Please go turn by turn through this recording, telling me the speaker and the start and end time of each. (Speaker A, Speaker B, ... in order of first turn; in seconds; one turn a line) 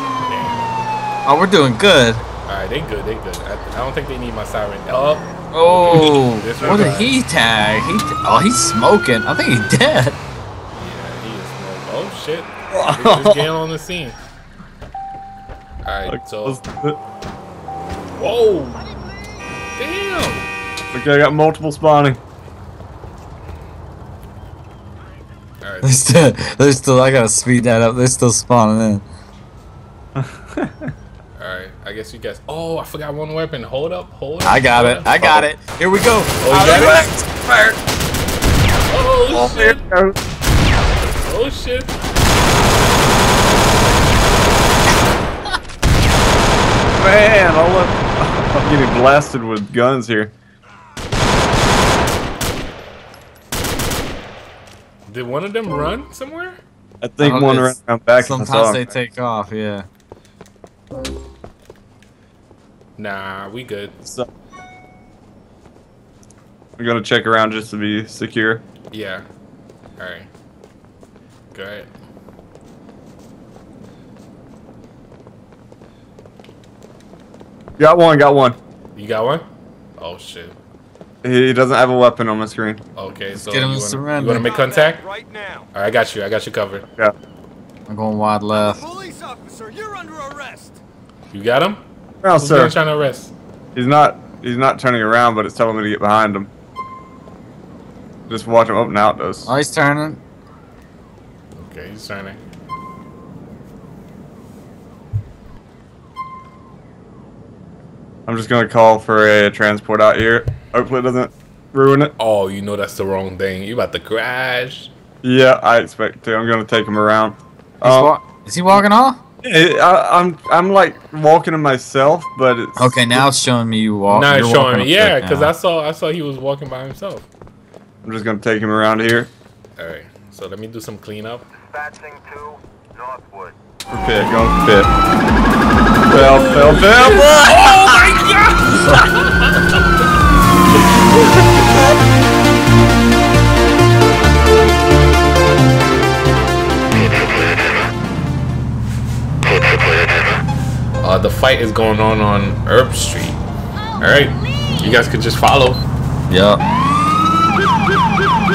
Speaker A: 0.3-0.7
Speaker B: 1.2-2.2
Speaker A: 2.5-7.1
Speaker B: 5.5-10.2
Speaker C: 6.6-7.0
Speaker A: 10.8-14.2
Speaker C: 12.7-13.5
Speaker A: 15.8-16.6
Speaker C: 16.1-17.0
Speaker A: 18.2-18.9
Speaker A: 19.8-20.5
Speaker C: 20.9-22.2
Speaker A: 25.6-26.5
Speaker B: 25.8-29.0
Speaker C: 30.1-30.9
Speaker A: 31.4-35.1
Speaker B: 34.5-37.0
Speaker C: 35.2-35.5
Speaker A: 36.4-37.1
Speaker C: 36.5-37.8
Speaker A: 38.9-39.8
Speaker C: 39.3-40.1
Speaker A: 41.0-41.9
Speaker C: 46.9-50.3
Speaker A: 55.1-56.6
Speaker C: 57.0-58.8
Speaker B: 57.2-59.9
Speaker A: 63.0-64.0
Speaker C: 66.8-68.6
Speaker A: 68.9-69.2
Speaker A: 70.0-70.3
Speaker A: 71.5-71.9
Speaker C: 77.8-78.6
Speaker A: 79.0-79.5
Speaker A: 80.0-80.5
Speaker C: 81.2-82.8
Speaker A: 83.0-85.0
Speaker B: 83.3-84.5
Speaker D: 84.3-85.7
Speaker A: 85.7-86.8
Speaker C: 86.9-87.1
Speaker B: 87.9-88.8
Speaker D: 88.5-90.8
Speaker A: 91.3-91.8
Speaker C: 92.2-92.8
Speaker A: 92.4-93.3
Speaker C: 93.8-96.5
Speaker C: 98.3-99.5
Speaker B: 99.5-100.2
Speaker A: 101.6-102.4
Speaker C: 108.3-112.1
Speaker A: 112.2-114.9
Speaker C: 115.2-118.1
Speaker B: 117.8-119.2
Speaker C: 119.4-123.2
Speaker B: 122.8-125.5
Speaker A: 124.1-127.3
Speaker C: 128.1-129.3
Speaker A: 129.8-131.4
Speaker C: 133.9-134.9
Speaker C: 136.1-138.0
Speaker A: 136.1-139.9
Speaker A: 151.0-153.4
Speaker A: 154.0-155.8
Speaker B: 156.3-156.6